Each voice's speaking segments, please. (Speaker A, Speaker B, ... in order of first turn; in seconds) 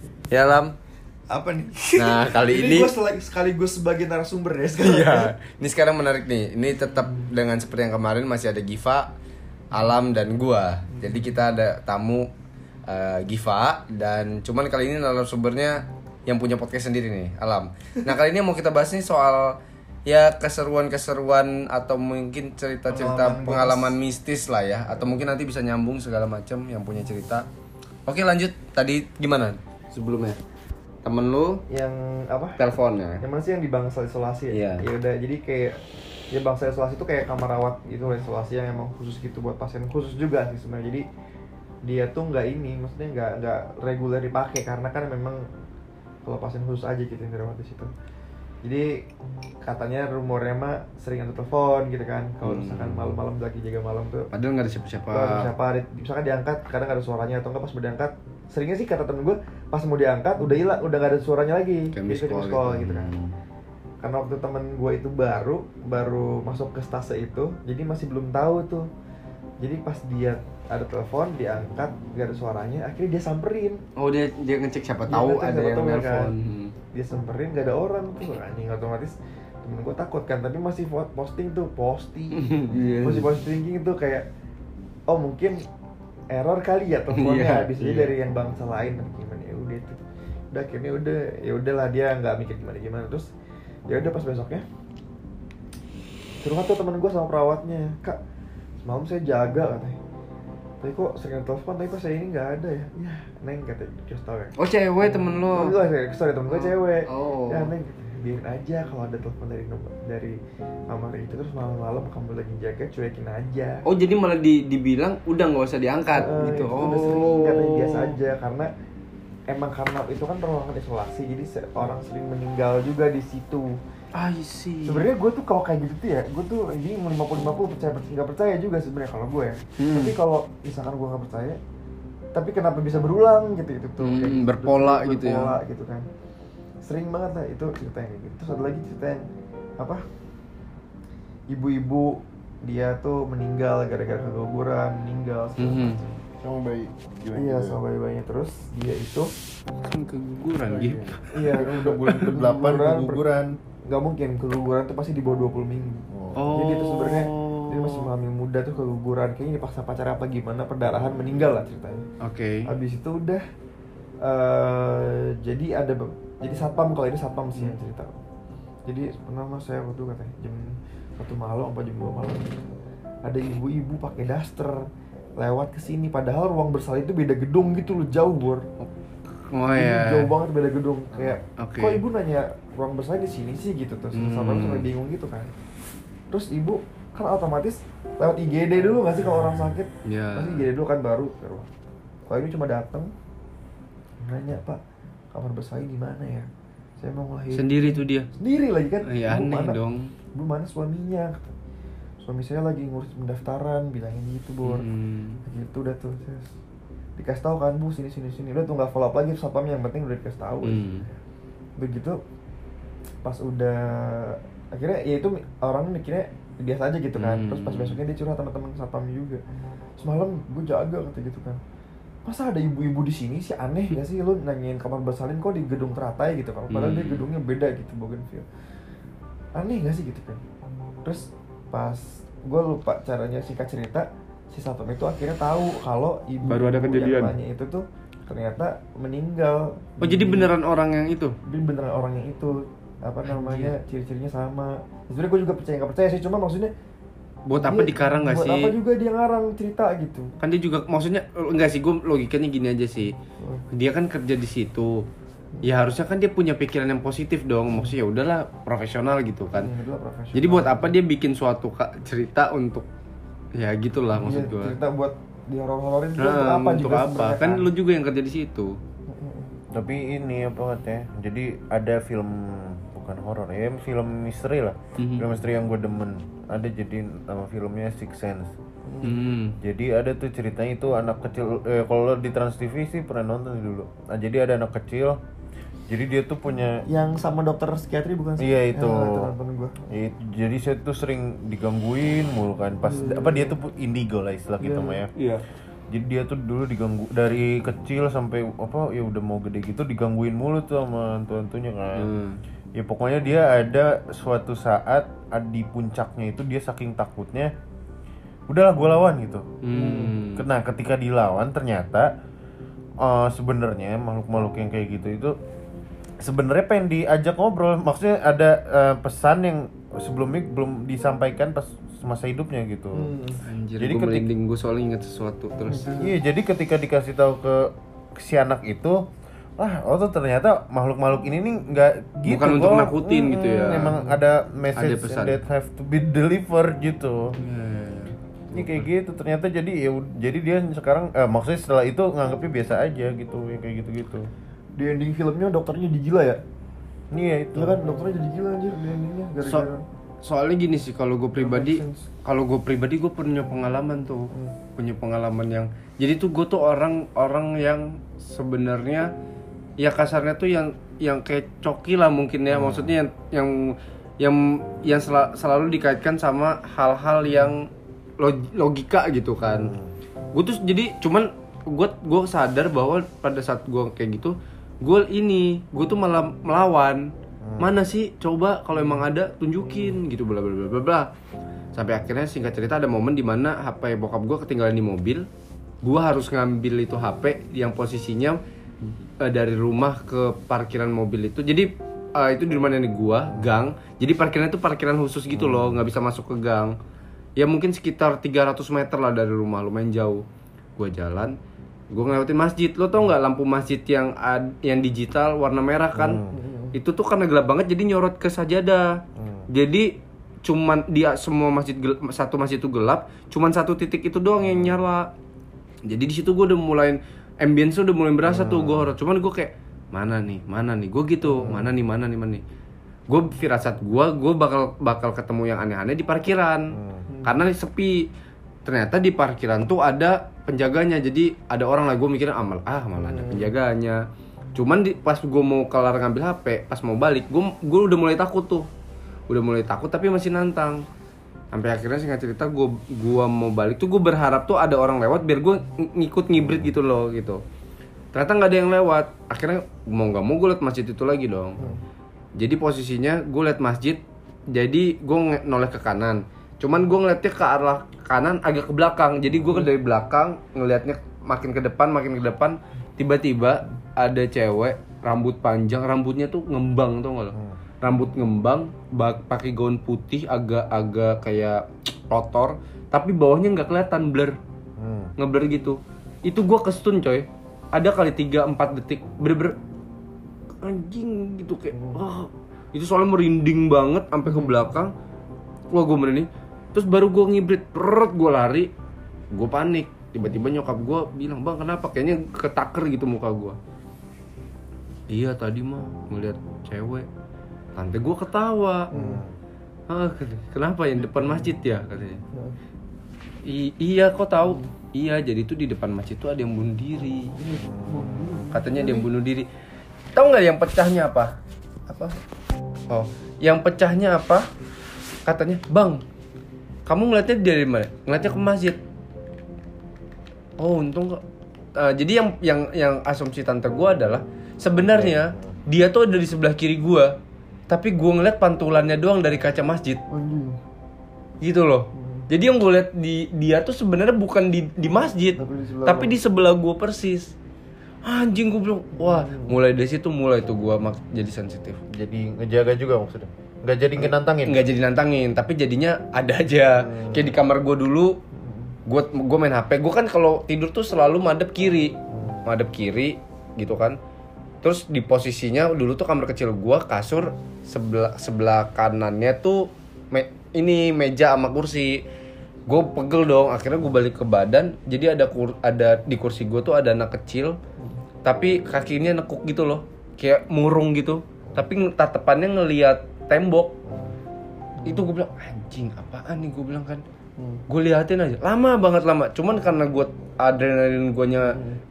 Speaker A: 0.3-0.8, 2.0-2.9, 4.8-9.1, 9.7-12.3, 12.9-27.5, 28.1-30.4, 31.0-31.6, 32.6-33.2, 34.5-34.9, 52.4-53.2, 54.3-55.5, 61.9-63.3, 74.0-76.7, 82.3-83.3, 87.1-88.1, 104.6-105.7, 106.5-107.7, 113.8-118.2, 124.1-125.1, 129.8-130.2, 134.0-135.6, 145.6-146.0, 149.9-151.3, 156.3-158.1, 162.2-162.7, 179.5-180.3, 181.6-182.0, 184.2-184.9, 190.1-190.7, 197.5-198.3, 199.0-200.1, 204.6-205.4, 210.6-211.1, 217.2-218.0, 226.7-227.2, 236.5-237.4, 240.0-241.3, 243.2-243.7, 247.5-248.7, 250.4-253.1, 253.7-255.0, 255.6-259.7, 260.3-262.9, 263.6-264.8, 266.2-268.8, 275.0-275.2, 279.0-279.6, 295.2-295.4, 301.9-302.4, 309.6-310.5, 323.4-325.9, 332.3-334.1, 334.8-335.4, 337.4-338.9, 350.2-359.1, 359.8-367.7, 368.2-369.8, 370.3-381.1, 381.8-385.3, 385.8-388.4, 389.2-396.7, 397.4-400.2, 400.8-401.4, 401.9-406.2, 406.7-409.9, 410.4-415.1, 415.9-422.4, 423.1-427.9, 428.6-434.0, 434.6-438.7, 439.3-440.8, 441.5-447.4, 448.1-451.7, 452.4-454.0, 454.5-474.4, 475.2-479.6, 480.6-484.9, 485.7-488.7, 489.3-493.6, 495.1-497.1, 497.8-498.9, 499.9-502.2, 503.4-507.4, 508.5-509.5, 510.1-511.4, 511.9-512.1, 512.9-514.5, 515.3-516.0, 516.9-518.8, 520.6-521.2, 521.8-527.2, 527.7-530.0, 531.4-537.3, 538.0-541.8, 544.0-548.2, 548.9-554.0, 554.6-562.0, 562.7-567.6, 568.2-573.7, 574.9-577.0, 577.7-581.6
Speaker B: 1.3-5.3, 22.9-24.0, 31.7-32.6, 33.2-35.8, 36.3-41.0, 41.9-45.4, 46.2-47.9, 48.6-48.9, 49.6-54.3, 55.1-63.1, 64.0-68.9, 69.6-73.8, 75.1-76.3, 76.9-84.3, 85.1-85.6, 86.3-90.0, 90.5-93.3, 93.9-94.6, 96.4-98.2, 98.8-100.0, 100.8-104.5, 105.5-110.3, 110.9-113.8, 116.1-118.7, 119.5-123.7, 124.8-131.6, 132.3-136.1, 136.9-139.2, 141.5-146.2, 147.3-149.3, 151.3-153.3, 153.9-162.0, 162.7-163.4, 164.2-168.1, 168.9-172.6, 173.2-174.8, 175.4-178.6, 179.7-185.5, 186.3-191.7, 192.3-193.1, 194.2-194.8, 195.3-199.8, 200.3-201.5, 202.2-204.9, 205.4-206.5, 207.2-210.8, 211.8-212.2, 213.2-219.4, 220.0-221.6, 222.3-228.5, 229.6-230.4, 231.0-240.5, 241.5-246.7, 247.6-250.3, 259.5-260.9, 264.2-267.7, 269.1-269.6, 278.9-279.2, 286.9-289.8, 292.9-293.5, 294.6-295.1, 322.9-323.4, 325.7-326.1, 344.8-346.4, 347.5-349.8, 351.3-352.1, 354.3-354.6, 406.3-406.8, 421.3-421.7, 427.1-427.4, 433.0-433.5, 481.7-482.0, 498.9-499.2, 501.2-501.5, 507.4-509.1, 530.1-530.6, 531.9-532.3, 535.4-536.2, 538.9-539.6, 548.3-548.8, 574.8-575.1, 577.4-577.6, 581.5-581.8
Speaker C: 146.4-147.8, 150.7-153.5, 156.1-156.4, 269.7-278.5, 279.6-285.2, 285.9-286.8, 288.4-289.3, 289.9-295.1, 295.9-302.1, 302.8-307.5, 308.5-312.1, 313.0-315.4, 316.2-323.1, 323.8-324.3, 325.8-329.0, 329.6-337.4, 338.5-344.3, 347.1-347.8, 362.5-363.0, 369.5-369.9, 377.4-377.7, 393.3-393.6, 395.3-395.9, 405.9-406.4, 409.2-409.5, 414.4-414.8, 418.2-418.9, 426.7-427.1, 467.3-467.6, 474.8-475.1, 498.9-499.3, 507.5-508.5, 524.8-525.6, 541.9-544.7, 546.7-547.4, 552.1-552.5, 573.9-574.1